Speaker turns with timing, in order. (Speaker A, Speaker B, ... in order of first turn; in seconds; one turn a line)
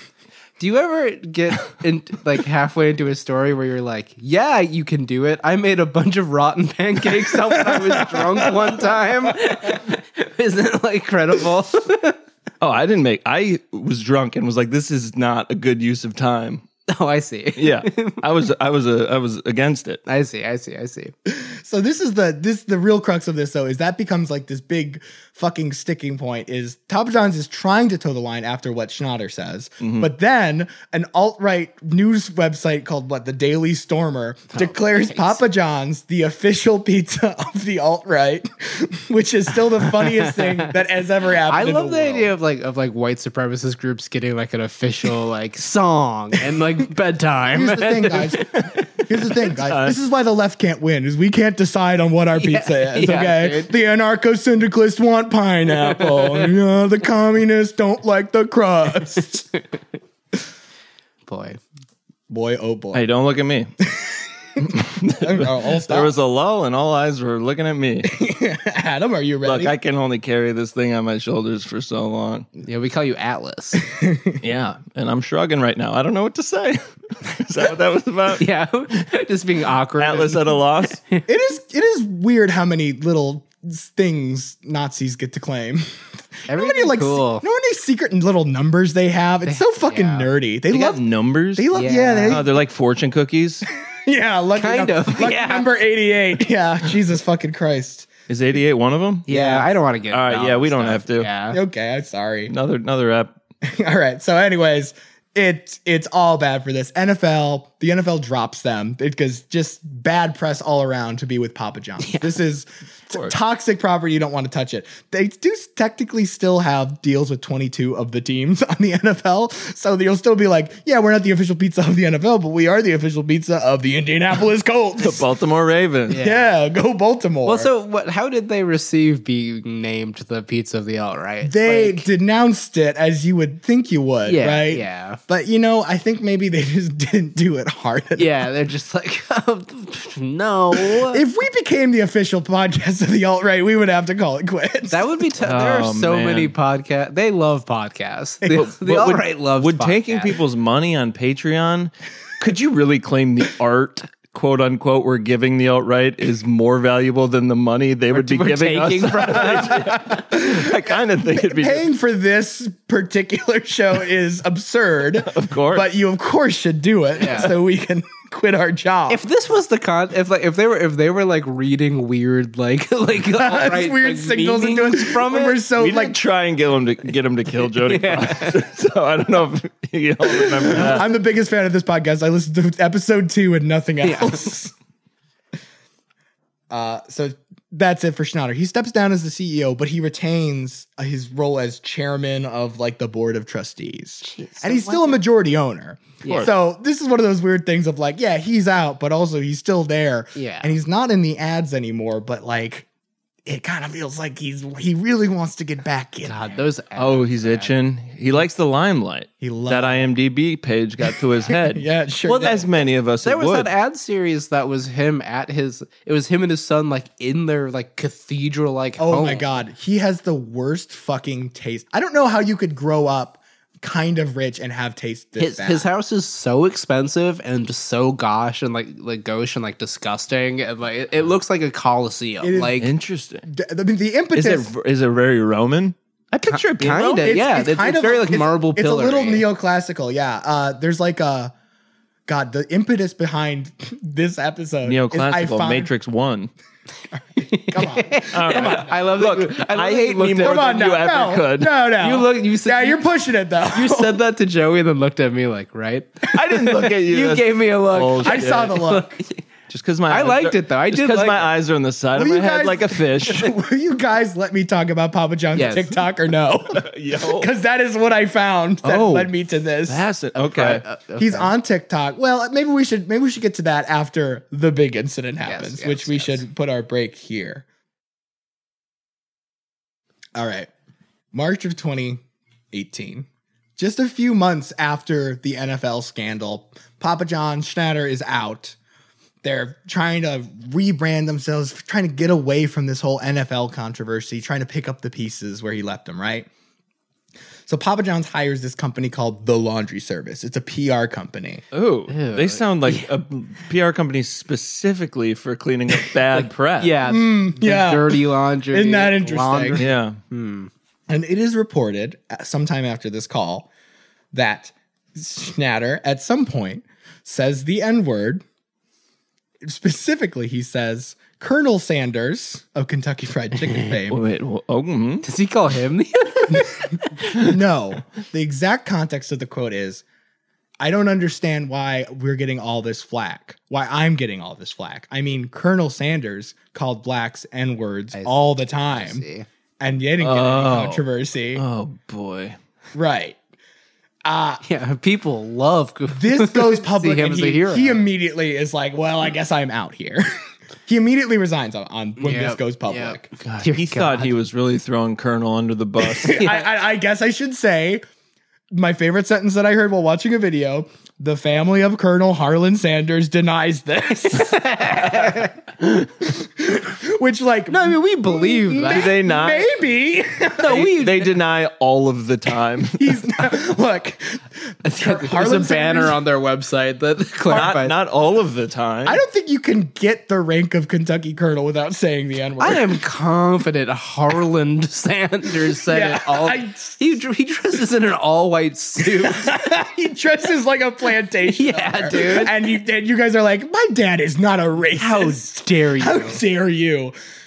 Speaker A: 0.6-12.2
Speaker B: 7.7-8.9
Speaker C: 12.6-16.6
Speaker A: 16.9-18.2
Speaker C: 17.6-20.0
Speaker A: 20.1-21.1
Speaker B: 21.3-42.3
Speaker C: 29.8-30.1
Speaker A: 34.5-35.4
Speaker A: 39.9-40.6
Speaker A: 41.5-48.5
Speaker B: 47.5-59.5
Speaker C: 48.5-48.8
Speaker C: 49.4-50.0
Speaker A: 52.4-53.7
Speaker A: 56.0-56.5
Speaker A: 61.3-61.6
Speaker B: 62.3-63.0
Speaker C: 62.9-63.7
Speaker B: 64.0-66.2
Speaker C: 64.6-68.1
Speaker B: 68.0-69.7
Speaker C: 69.4-72.5
Speaker A: 72.6-73.8
Speaker B: 73.8-74.4
Speaker C: 74.4-78.5
Speaker A: 78.4-81.2
Speaker C: 80.0-81.0
Speaker B: 81.3-85.8
Speaker B: 86.5-92.5
Speaker A: 86.5-87.5
Speaker A: 89.5-90.3
Speaker C: 90.7-91.7
Speaker A: 91.7-92.5
Speaker C: 92.3-93.7
Speaker B: 93.9-98.1
Speaker A: 94.6-95.7
Speaker C: 98.3-99.3
Speaker A: 99.3-101.6
Speaker B: 99.3-99.7
Speaker C: 100.1-101.3
Speaker B: 101.5-102.5
Speaker C: 102.5-103.3
Speaker B: 103.6-125.2
Speaker A: 112.0-112.3
Speaker C: 113.1-113.3
Speaker C: 125.0-126.2
Speaker A: 126.1-126.5
Speaker B: 126.2-127.7
Speaker A: 127.5-132.1
Speaker B: 131.4-138.3
Speaker A: 134.2-135.2
Speaker A: 138.2-141.2
Speaker B: 140.8-145.2
Speaker A: 144.9-150.4
Speaker C: 145.4-146.5
Speaker C: 148.5-161.9
Speaker A: 158.1-160.2
Speaker B: 159.6-169.2
Speaker C: 165.2-165.9
Speaker A: 167.2-167.6
Speaker A: 169.1-175.6
Speaker B: 173.3-176.2
Speaker C: 175.7-181.1
Speaker A: 177.7-178.6
Speaker B: 180.7-184.7
Speaker A: 184.0-184.4
Speaker B: 186.7-202.9
Speaker A: 194.2-195.2
Speaker A: 196.2-196.5
Speaker C: 196.2-196.5
Speaker A: 200.4-200.7
Speaker B: 203.5-206.6
Speaker A: 206.2-207.7
Speaker C: 207.0-213.7
Speaker B: 209.4-210.1
Speaker B: 211.5-212.6
Speaker A: 212.3-212.6
Speaker A: 213.2-219.5
Speaker B: 219.0-225.9
Speaker A: 225.4-232.9
Speaker B: 232.4-232.8
Speaker C: 232.8-233.5
Speaker B: 233.5-234.7
Speaker C: 234.3-237.4
Speaker A: 236.4-239.5
Speaker B: 237.2-241.5
Speaker B: 242.3-245.9
Speaker C: 244.8-246.5
Speaker B: 247.1-249.0
Speaker A: 247.4-250.8
Speaker C: 248.3-251.8
Speaker B: 250.3-254.2
Speaker A: 252.0-253.0
Speaker A: 253.7-259.3
Speaker C: 256.3-258.8
Speaker B: 258.2-259.2
Speaker C: 259.7-263.6
Speaker A: 260.1-261.5
Speaker B: 262.1-270.0
Speaker A: 265.5-266.0
Speaker C: 266.7-267.5
Speaker C: 268.8-269.3
Speaker C: 269.9-270.8
Speaker A: 270.4-271.5
Speaker B: 271.2-277.6
Speaker A: 275.4-276.4
Speaker B: 280.4-280.7
Speaker B: 281.3-288.8
Speaker B: 289.4-296.5
Speaker B: 297.7-301.6
Speaker C: 301.7-306.9
Speaker A: 302.1-303.1
Speaker A: 306.0-310.7
Speaker B: 307.0-309.8
Speaker C: 309.8-310.2
Speaker B: 311.1-313.7
Speaker B: 314.3-318.4
Speaker B: 319.6-324.2
Speaker C: 324.1-325.3
Speaker A: 325.2-327.3
Speaker B: 327.3-330.0
Speaker B: 330.8-339.2
Speaker A: 338.1-339.5
Speaker B: 339.8-341.6
Speaker C: 340.2-342.6
Speaker B: 342.9-343.4
Speaker B: 344.2-344.6
Speaker A: 344.6-348.0
Speaker B: 346.1-350.3
Speaker B: 350.9-353.3
Speaker A: 352.2-354.4
Speaker C: 353.4-356.4
Speaker B: 356.2-358.0
Speaker A: 356.3-356.6
Speaker B: 358.7-370.9
Speaker A: 364.3-365.6
Speaker A: 367.7-369.2
Speaker C: 368.9-369.7
Speaker A: 370.6-371.4
Speaker C: 370.6-373.1
Speaker B: 373.0-376.2
Speaker A: 374.8-378.0
Speaker C: 377.5-379.2
Speaker B: 379.1-383.0
Speaker A: 382.6-389.6
Speaker B: 385.9-387.0
Speaker B: 389.0-397.1
Speaker A: 391.4-392.5
Speaker A: 394.9-396.4